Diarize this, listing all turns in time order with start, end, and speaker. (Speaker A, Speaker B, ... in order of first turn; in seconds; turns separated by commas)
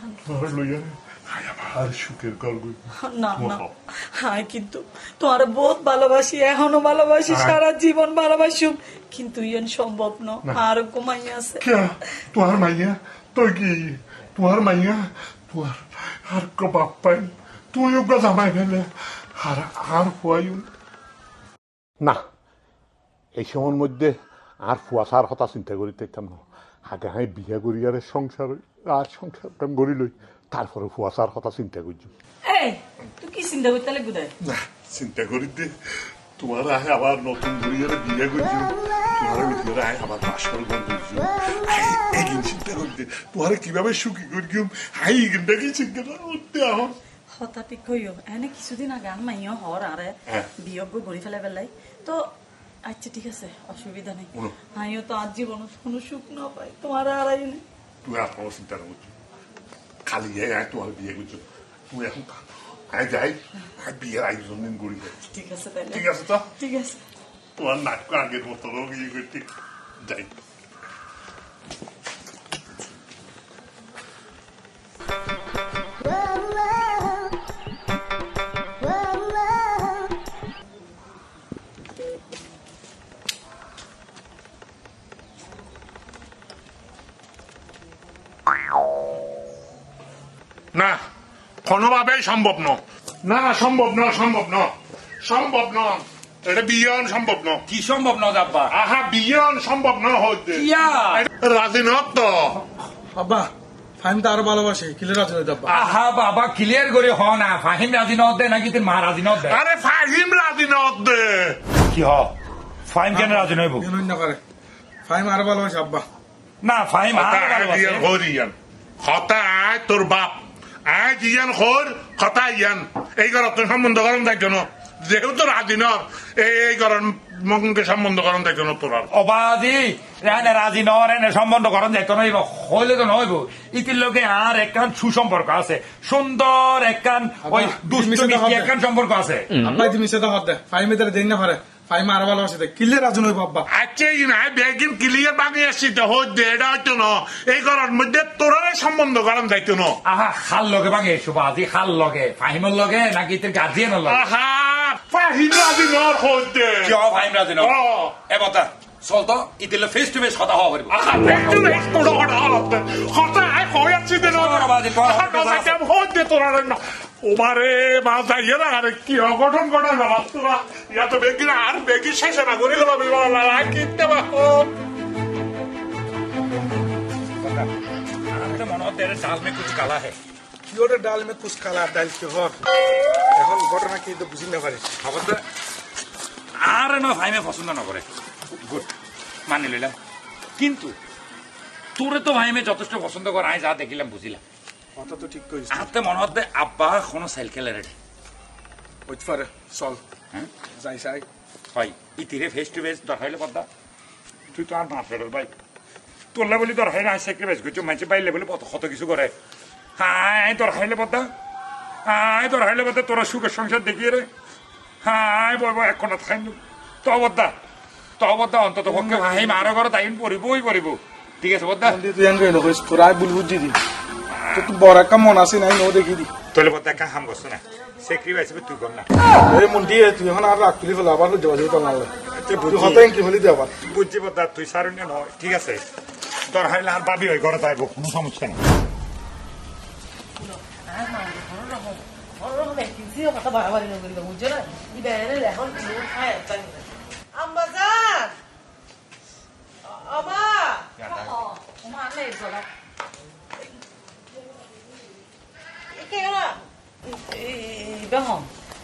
Speaker A: 0.2-2.8, Speaker B: 3.0-3.6, Speaker A: 3.3-3.7, Speaker B: 4.1-11.6, Speaker A: 7.3-7.6, Speaker A: 11.6-18.9, Speaker A: 19.4-20.7, Speaker A: 23.4-32.1, Speaker B: 32.5-34.3, Speaker A: 34.4-35.7, Speaker A: 36.4-46.9, Speaker B: 47.4-52.3, Speaker B: 52.8-57.6, Speaker A: 58.0-59.1, Speaker A: 60.0-65.2, Speaker B: 65.3-67.0, Speaker A: 65.9-66.5, Speaker A: 67.6-69.5, Speaker A: 70.0-70.4, Speaker A: 90.7-91.0, Speaker A: 91.6-97.6, Speaker C: 97.7-98.7, Speaker A: 98.7-102.6, Speaker C: 100.5-101.2, Speaker D: 103.1-105.9, Speaker C: 105.7-109.6, Speaker A: 109.4-111.6, Speaker C: 111.9-112.3, Speaker C: 112.9-113.9, Speaker D: 113.1-114.4, Speaker D: 115.1-116.0, Speaker C: 116.6-118.1, Speaker A: 117.1-129.1, Speaker C: 129.1-139.6, Speaker D: 137.4-138.7, Speaker D: 139.6-143.6, Speaker A: 143.7-150.0, Speaker C: 150.0-154.2, Speaker A: 154.1-157.0, Speaker C: 156.8-161.7, Speaker A: 157.6-158.2, Speaker A: 160.9-174.7, Speaker C: 164.2-165.8, Speaker C: 177.4-177.7, Speaker C: 178.3-180.2, Speaker D: 180.7-182.6, Speaker D: 183.3-184.9, Speaker C: 185.0-185.4, Speaker C: 186.6-188.1, Speaker C: 188.6-188.9, Speaker C: 189.5-189.9, Speaker C: 190.6-190.9, Speaker C: 191.9-194.4, Speaker D: 194.9-195.9, Speaker C: 195.7-197.9, Speaker D: 199.1-200.0, Speaker D: 200.7-201.2, Speaker C: 201.7-203.7, Speaker C: 204.5-205.5, Speaker C: 206.3-209.3, Speaker C: 210.0-211.3, Speaker C: 212.1-214.3, Speaker C: 215.0-217.5, Speaker C: 218.2-222.0, Speaker D: 218.9-219.5, Speaker D: 221.8-223.8, Speaker C: 224.3-224.7, Speaker D: 224.5-226.3, Speaker C: 226.5-229.1, Speaker D: 229.5-233.7, Speaker C: 232.4-233.1, Speaker C: 233.8-235.8, Speaker C: 236.5-238.6, Speaker E: 240.4-248.3, Speaker E: 249.8-250.9, Speaker B: 251.0-252.6, Speaker E: 255.9-256.6, Speaker B: 257.1-258.5